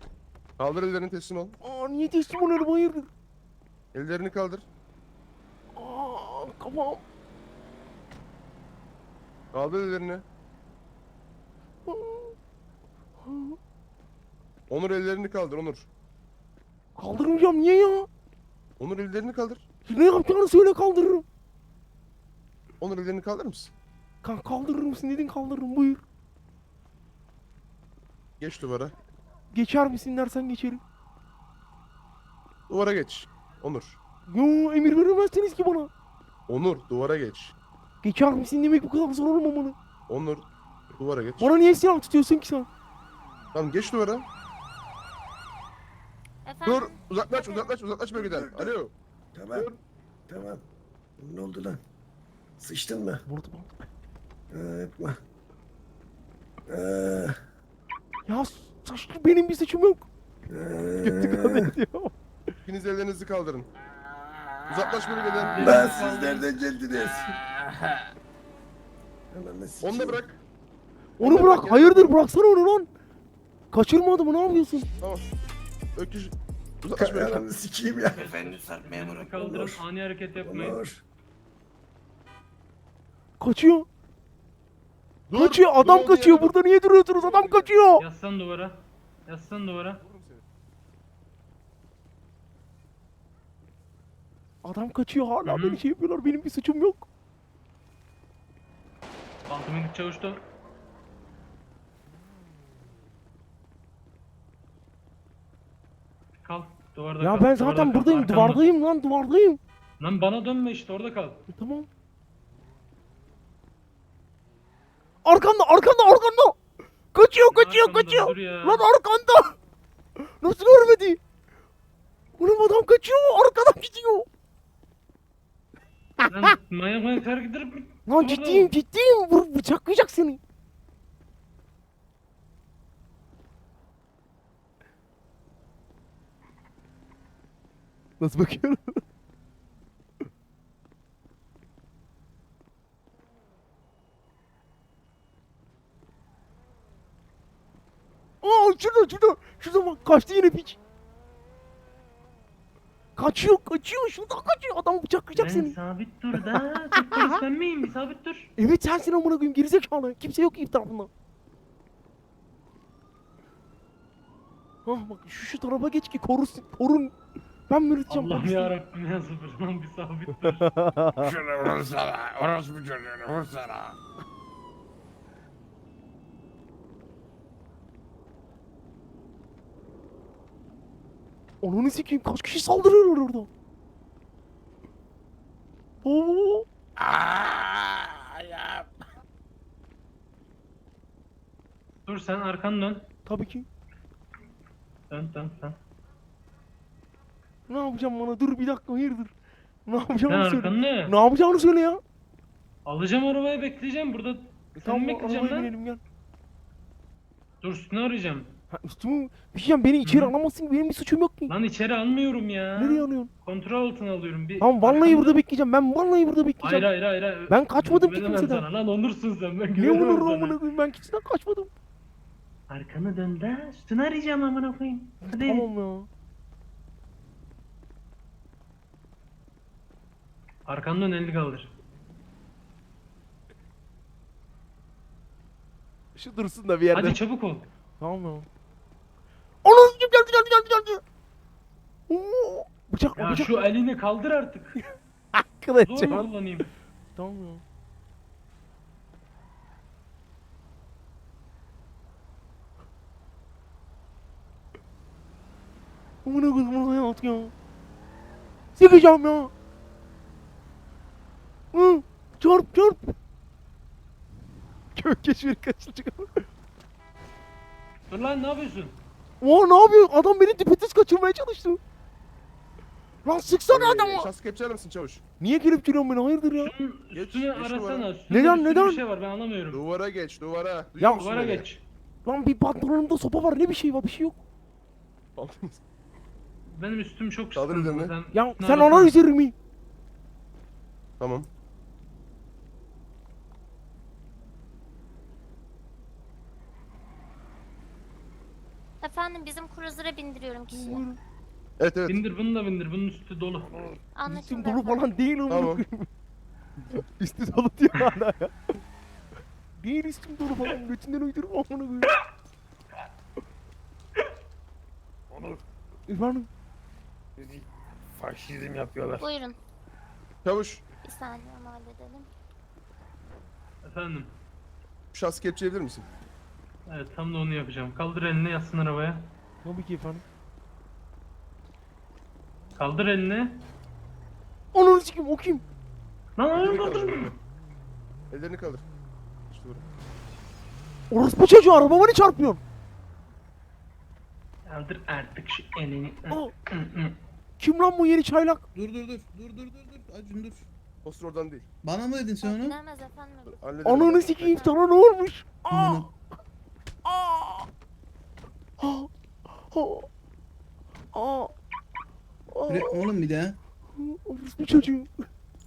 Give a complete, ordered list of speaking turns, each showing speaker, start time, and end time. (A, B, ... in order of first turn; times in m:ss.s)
0:00.6-0:01.6 A
0:01.6-0:03.1 B
0:03.9-0:04.7 A
0:05.8-0:07.0 B
0:09.5-0:10.2 A
0:11.9-0:12.4 B
0:13.2-0:13.6 B
0:14.7-0:15.9 A
0:17.0-0:18.1 B
0:18.8-0:19.6 A
0:19.9-0:21.2 B
0:22.8-0:23.7 A
0:24.2-0:26.0 B
0:28.4-0:29.0 A
0:29.5-0:30.8 B
0:32.7-0:34.0 A
0:34.3-0:35.9 B
0:36.5-0:37.6 A
0:38.0-0:39.8 B
0:40.1-0:41.5 A
0:41.4-0:42.7 B
0:43.5-0:44.3 A
0:46.5-0:47.8 C
0:46.6-0:48.9 A
0:48.1-0:48.8 D
0:49.3-0:49.7 D
0:49.5-0:49.8 A
0:50.3-0:50.6 D
0:51.2-0:51.8 D
0:52.6-0:53.2 D
0:53.3-0:53.7 B
0:54.5-0:55.2 D
0:56.7-0:57.4 D
0:58.3-1:00.1 B
1:00.5-1:01.7 D
1:01.0-1:02.1 B
1:02.7-1:03.7 A
1:04.7-1:05.8 A
1:05.5-1:06.5 E
1:05.6-1:07.4 D
1:09.3-1:10.2 D
1:09.8-1:10.4 A
1:11.2-1:12.9 B
1:11.2-1:12.1 A
1:13.7-1:14.9 B
1:16.0-1:17.4 A
1:17.0-1:19.8 D
1:18.1-1:20.8 E
1:20.4-1:21.0 D
1:23.4-1:23.9 B
1:25.3-1:26.5 A
1:25.3-1:28.0 B
1:27.2-1:27.7 A
1:28.0-1:30.0 E
1:30.0-1:30.4 A
1:34.6-1:37.1 B
1:35.4-1:35.8 E
1:39.5-1:40.4 E
1:46.4-1:48.7 E
1:47.2-1:49.6 B
1:50.0-1:51.4 E
1:51.5-1:51.9 B
1:55.2-1:56.6 B
1:57.1-1:59.6 B
1:57.5-1:58.8 E
2:00.4-2:01.2 B
2:02.4-2:04.3 B
2:06.2-2:06.5 B
2:06.3-2:08.7 E
2:08.1-2:10.4 B
2:18.2-2:19.0 B
2:28.4-2:30.8 B
2:33.2-2:35.8 B
2:35.4-2:38.5 E
2:36.4-2:37.4 B
2:38.6-2:41.1 B
2:44.9-2:47.1 B
2:47.7-2:48.7 B
2:48.1-2:50.7 E
2:50.6-2:51.4 B
2:51.2-2:53.9 F
3:01.6-3:03.5 B
3:06.0-3:06.7 B
3:12.1-3:13.1 E
3:13.3-3:13.7 B
3:15.1-3:15.8 E
3:17.7-3:19.3 B
3:19.9-3:22.0 B
3:20.3-3:21.1 E
3:22.9-3:25.7 E
3:24.8-3:26.0 B
3:27.6-3:28.5 E
3:28.7-3:31.5 B
3:30.0-3:30.4 E
3:31.5-3:35.4 E
3:32.8-3:33.3 B
3:34.6-3:36.9 B
3:36.6-3:40.6 E
3:37.5-3:38.6 B
3:39.7-3:41.7 B
3:42.7-3:45.7 E
3:45.2-3:46.1 B
3:50.7-3:51.7 E
3:56.2-3:57.2 B
3:56.9-3:57.7 E
3:58.0-3:58.5 B
3:59.6-4:01.0 B
4:02.1-4:03.7 B
4:03.2-4:04.8 E
4:05.4-4:06.3 B
4:05.9-4:06.7 E
4:07.2-4:07.6 B
4:16.2-4:17.5 B
4:18.8-4:19.5 B
4:21.7-4:23.2 B
4:25.0-4:26.5 B
4:28.1-4:29.0 E
4:29.4-4:31.8 B
4:33.2-4:34.3 B
4:33.7-4:35.2 A
4:35.4-4:36.7 B
4:36.6-4:39.8 E
4:37.1-4:38.1 A
4:38.3-4:39.0 B
4:39.7-4:41.7 A
4:41.0-4:41.5 B
4:41.2-4:41.8 E
4:42.3-4:44.4 B
4:45.4-4:45.8 A
4:46.7-4:49.2 E
4:47.6-4:48.1 A
4:48.3-4:49.6 B
4:51.2-4:51.5 A
4:59.0-5:01.0 C
5:00.7-5:01.2 B
5:01.8-5:02.2 A
5:02.1-5:03.7 E
5:03.6-5:04.0 F
5:04.1-5:05.1 C
5:04.3-5:06.1 B
5:05.5-5:05.8 A
5:07.2-5:08.6 B
5:09.8-5:12.2 B
5:15.3-5:15.6 F
5:16.1-5:16.5 B
5:17.4-5:19.3 F
5:19.2-5:19.6 C
5:20.4-5:20.8 A
5:21.0-5:22.3 C
5:23.8-5:24.3 E
5:25.1-5:26.1 A
5:26.9-5:29.3 E
5:29.6-5:30.2 B
5:32.8-5:33.6 E
5:34.7-5:35.6 B
5:36.4-5:37.3 E
5:36.5-5:37.4 A
5:38.3-5:38.8 A
5:39.5-5:39.9 A
5:41.1-5:42.6 B
5:44.7-5:47.2 E
5:47.6-5:48.6 B
5:48.8-5:50.6 G
5:51.0-5:51.6 A
5:51.8-5:52.8 G
5:52.4-5:53.6 C
5:53.6-5:54.6 A
5:53.8-5:56.1 B
5:54.1-5:54.7 C
5:55.7-5:56.1 G
5:57.1-5:57.7 B
5:58.8-5:59.1 B
5:59.7-6:00.1 B
6:01.1-6:01.5 B
6:02.5-6:03.0 B
6:02.7-6:03.6 G
6:04.0-6:05.1 B